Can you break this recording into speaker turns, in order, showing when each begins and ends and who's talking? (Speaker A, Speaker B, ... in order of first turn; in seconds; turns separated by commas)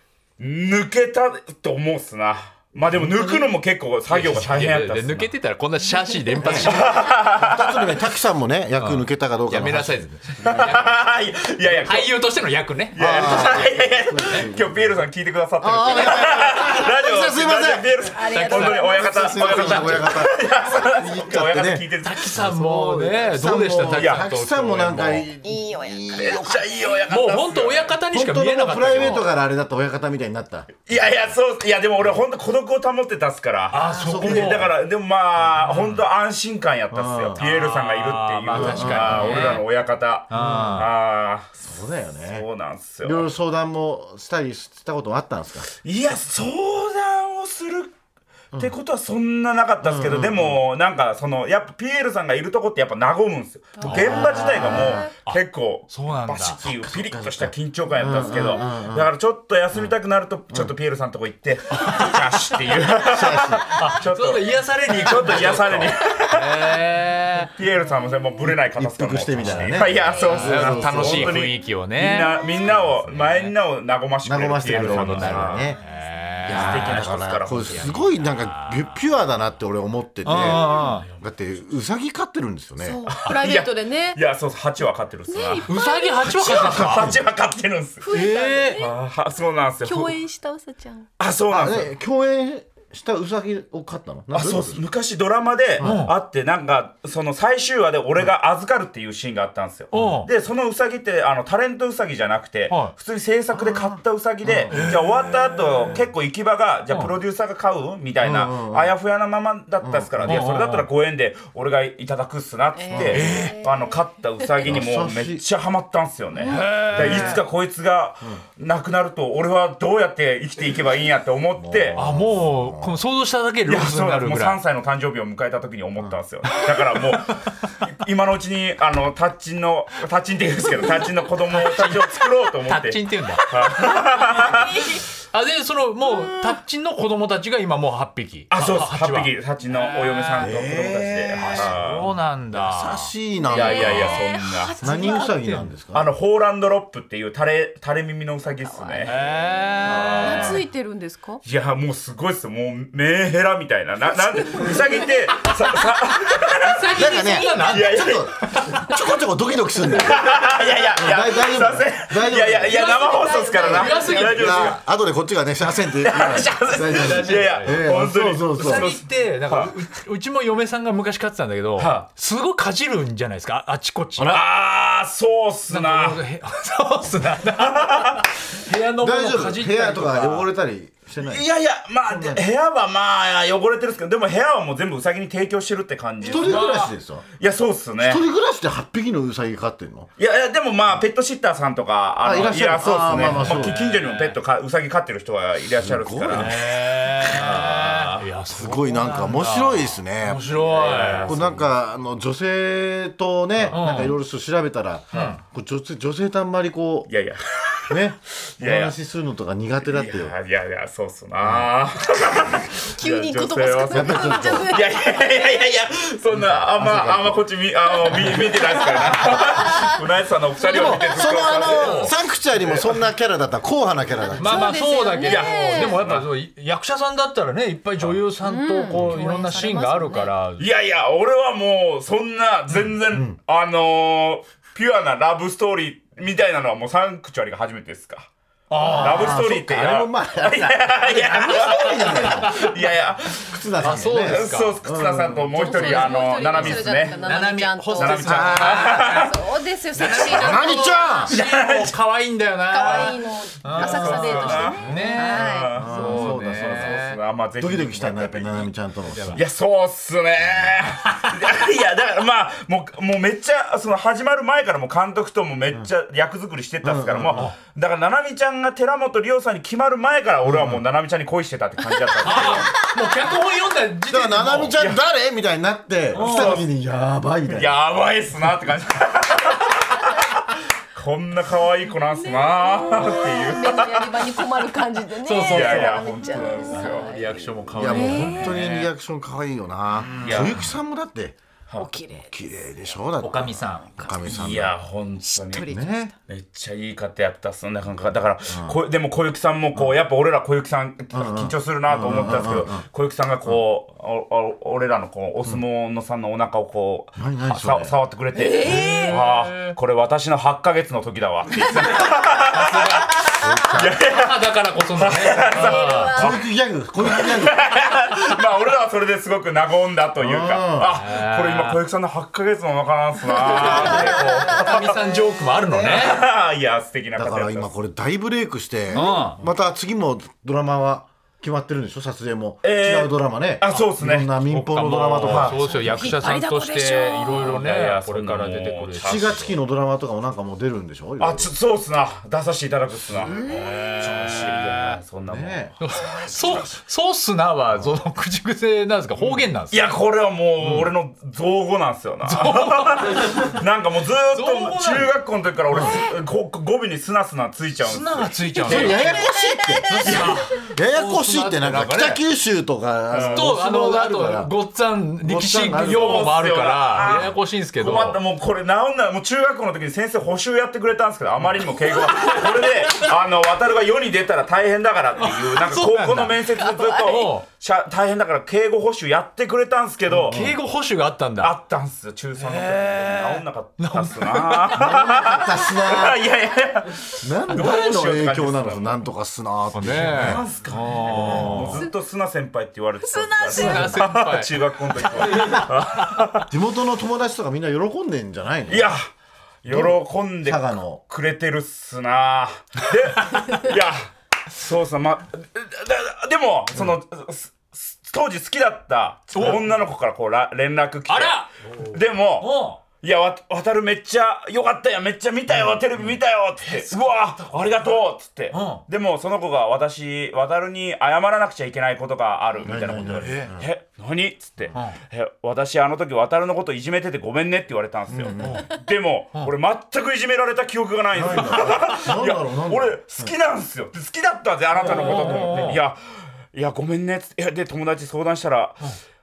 Speaker A: 0.4-5.3, Speaker B: 2.9-3.5, Speaker C: 4.1-6.9, Speaker B: 6.4-10.8, Speaker A: 6.5-8.0, Speaker C: 8.8-10.9, Speaker A: 10.4-12.1, Speaker C: 11.8-13.6, Speaker A: 12.9-22.3, Speaker B: 12.9-15.0, Speaker B: 15.6-17.9, Speaker D: 15.8-16.9, Speaker D: 18.1-19.9, Speaker C: 18.3-20.1, Speaker B: 18.7-26.6, Speaker C: 22.0-25.3, Speaker A: 23.9-24.2, Speaker D: 25.4-27.0, Speaker A: 26.1-27.9, Speaker C: 27.1-29.3, Speaker B: 28.1-30.8, Speaker D: 29.0-29.2, Speaker A: 30.9-41.6, Speaker C: 33.7-34.7, Speaker B: 33.9-34.7, Speaker C: 35.6-36.0, Speaker B: 36.9-37.4, Speaker C: 37.4-39.6, Speaker B: 38.5-39.6, Speaker C: 40.3-40.9, Speaker B: 40.3-40.8, Speaker B: 41.6-42.5, Speaker A: 42.3-43.3, Speaker B: 43.0-45.7, Speaker A: 45.8-47.9, Speaker A: 48.5-66.8, Speaker B: 49.8-50.6, Speaker D: 53.8-54.7, Speaker C: 53.8-56.6, Speaker B: 53.9-55.1, Speaker B: 56.6-59.1, Speaker C: 61.8-62.2, Speaker B: 63.0-63.6, Speaker C: 63.6-67.5, Speaker A: 67.5-75.7, Speaker B: 68.4-71.5, Speaker C: 69.4-73.5, Speaker D: 70.1-70.5, Speaker D: 72.3-72.8, Speaker B: 74.2-75.8, Speaker C: 74.8-79.0, Speaker D: 75.7-76.0, Speaker B: 76.4-83.0, Speaker A: 76.5-78.1, Speaker C: 80.2-81.1, Speaker D: 80.6-80.9, Speaker D: 82.8-84.2, Speaker A: 83.1-85.7, Speaker D: 85.3-86.6, Speaker C: 85.7-87.1, Speaker B: 86.2-87.2, Speaker A: 86.3-88.1, Speaker D: 88.0-88.9, Speaker C: 88.1-88.8, Speaker A: 88.7-90.2, Speaker D: 89.8-91.1, Speaker A: 91.2-91.9, Speaker B: 91.5-94.8, Speaker A: 94.3-122.0, Speaker B: 95.8-96.0, Speaker C: 95.8-96.1, Speaker C: 99.9-100.3, Speaker C: 102.7-102.9, Speaker B: 104.4-105.0, Speaker C: 104.7-106.0, Speaker B: 108.2-108.9, Speaker B: 109.8-110.4, Speaker C: 110.2-110.9, Speaker D: 112.7-114.7, Speaker B: 112.9-113.3, Speaker C: 113.1-113.5, Speaker B: 114.6-115.4, Speaker D: 116.4-116.7, Speaker C: 116.5-117.4, Speaker B: 116.9-117.4, Speaker B: 121.6-123.0, Speaker C: 122.0-124.6, Speaker A: 123.7-134.9, Speaker C: 131.5-140.5, Speaker D: 134.7-135.0, Speaker A: 138.5-142.1, Speaker B: 140.4-141.7, Speaker C: 141.4-143.1, Speaker B: 142.5-144.2, Speaker D: 143.4-145.4, Speaker A: 143.5-144.8, Speaker B: 144.8-146.1, Speaker C: 144.8-145.7, Speaker A: 145.9-149.1, Speaker D: 148.6-149.3, Speaker C: 149.1-150.6, Speaker A: 149.8-150.6, Speaker B: 149.9-150.2, Speaker D: 150.2-151.4, Speaker A: 151.4-156.9, Speaker D: 154.4-155.8, Speaker D: 156.4-157.8, Speaker C: 156.6-158.9, Speaker B: 156.9-160.4, Speaker A: 157.6-158.8, Speaker A: 159.9-164.8, Speaker B: 160.9-163.0, Speaker D: 162.5-164.6, Speaker B: 163.6-168.9, Speaker C: 163.6-164.8, Speaker A: 166.0-169.7, Speaker C: 166.6-167.8, Speaker C: 168.6-174.4, Speaker A: 171.8-172.0, Speaker B: 174.2-174.4, Speaker A: 174.2-176.2, Speaker C: 175.7-180.5, Speaker A: 177.6-178.2, Speaker B: 179.0-181.5, Speaker A: 181.2-186.8, Speaker B: 182.1-182.4, Speaker B: 186.2-187.2, Speaker C: 186.3-186.9, Speaker A: 187.4-188.2, Speaker B: 188.0-190.1, Speaker A: 190.2-196.7, Speaker B: 192.2-193.8, Speaker C: 193.2-194.3, Speaker B: 195.8-196.7, Speaker C: 196.3-201.4, Speaker B: 197.2-207.1, Speaker A: 197.4-198.0, Speaker A: 200.7-201.6, Speaker C: 203.7-204.2, Speaker C: 205.1-205.4, Speaker A: 207.1-208.0, Speaker B: 207.9-210.3, Speaker A: 208.6-209.0, Speaker A: 209.9-223.0, Speaker B: 211.4-211.7, Speaker D: 212.8-215.2, Speaker B: 213.9-214.8, Speaker B: 216.3-217.4, Speaker D: 218.1-219.9, Speaker B: 218.1-218.6, Speaker D: 220.6-221.4, Speaker B: 220.7-224.7, Speaker C: 221.6-222.1, Speaker D: 224.2-226.0, Speaker C: 224.4-230.7, Speaker A: 225.2-226.3, Speaker D: 228.4-230.3, Speaker A: 230.6-238.2, Speaker B: 233.1-233.4, Speaker C: 238.7-239.4, Speaker B: 238.8-242.7, Speaker A: 238.9-247.2, Speaker C: 242.1-242.7, Speaker B: 243.4-246.1, Speaker C: 243.8-244.8, Speaker D: 245.6-251.3, Speaker C: 245.7-249.3, Speaker A: 247.9-250.2, Speaker B: 248.2-248.8, Speaker C: 249.9-257.2, Speaker B: 250.2-251.3, Speaker A: 251.3-251.9, Speaker D: 252.7-256.0, Speaker A: 253.7-258.7, Speaker B: 254.8-255.1, Speaker B: 255.7-259.4, Speaker C: 259.1-259.4, Speaker A: 259.3-272.8, Speaker B: 266.8-267.5, Speaker B: 270.4-270.8, Speaker C: 272.2-274.8, Speaker D: 272.2-273.3, Speaker B: 274.1-277.8, Speaker A: 276.1-276.7, Speaker C: 276.1-276.6, Speaker A: 277.5-284.4, Speaker D: 282.1-288.6, Speaker C: 285.2-288.9, Speaker A: 285.4-287.1, Speaker B: 287.7-291.4, Speaker C: 290.0-290.7, Speaker A: 290.2-290.6, Speaker D: 291.8-292.3, Speaker B: 292.3-294.7, Speaker C: 293.2-293.9, Speaker D: 294.0-294.3, Speaker A: 294.2-295.7, Speaker D: 295.2-296.1, Speaker B: 295.7-296.1, Speaker A: 296.3-316.4, Speaker B: 298.5-298.8, Speaker B: 301.1-302.8, Speaker B: 307.2-307.9, Speaker D: 308.3-309.2, Speaker C: 308.6-309.8, Speaker C: 312.5-313.3, Speaker B: 313.3-314.0, Speaker C: 314.0-316.2, Speaker D: 315.5-316.3, Speaker B: 316.1-317.6, Speaker A: 317.0-325.0, Speaker B: 320.2-320.9, Speaker C: 320.9-321.8, Speaker D: 323.4-325.0, Speaker C: 323.4-326.2, Speaker A: 325.8-327.7, Speaker B: 327.1-335.6, Speaker C: 328.9-329.4, Speaker A: 332.6-334.3, Speaker C: 334.4-339.5, Speaker A: 335.2-335.6, Speaker D: 335.6-337.6, Speaker A: 337.3-339.5, Speaker B: 339.0-341.5, Speaker A: 341.2-345.7, Speaker B: 343.1-343.8, Speaker C: 343.4-345.0, Speaker B: 345.3-345.7, Speaker C: 345.8-349.8, Speaker A: 349.7-359.1, Speaker B: 350.6-350.9, Speaker C: 352.2-353.6, Speaker C: 354.3-355.1, Speaker B: 355.7-356.0, Speaker C: 357.8-359.3, Speaker B: 358.6-364.5, Speaker D: 358.7-360.2, Speaker C: 359.9-362.2, Speaker A: 360.0-360.6, Speaker A: 363.1-363.5, Speaker C: 363.3-368.2, Speaker B: 365.2-366.4, Speaker A: 365.8-380.4, Speaker D: 371.8-372.6, Speaker C: 371.9-372.7, Speaker C: 375.2-377.4, Speaker D: 376.6-377.0, Speaker B: 380.1-380.6, Speaker C: 380.3-381.5, Speaker A: 381.4-389.1, Speaker C: 382.4-385.1, Speaker B: 384.8-386.2, Speaker B: 387.2-390.5, Speaker C: 389.7-391.8, Speaker A: 390.1-396.5, Speaker B: 391.4-391.7, Speaker D: 393.0-394.0, Speaker C: 393.5-394.6, Speaker C: 395.1-396.2, Speaker B: 396.5-398.9, Speaker A: 398.7-399.0, Speaker A: 399.6-436.0, Speaker B: 399.7-401.0, Speaker C: 409.3-409.7, Speaker C: 411.1-412.8, Speaker B: 415.5-416.1, Speaker C: 416.6-417.9, Speaker C: 418.5-418.8, Speaker B: 422.6-423.7, Speaker C: 423.1-423.5, Speaker C: 424.7-425.0, Speaker B: 428.1-428.7, Speaker C: 428.4-428.7, Speaker B: 431.1-433.3, Speaker C: 431.4-432.1, Speaker C: 434.8-435.8, Speaker B: 434.8-435.5, Speaker A: 436.5-438.8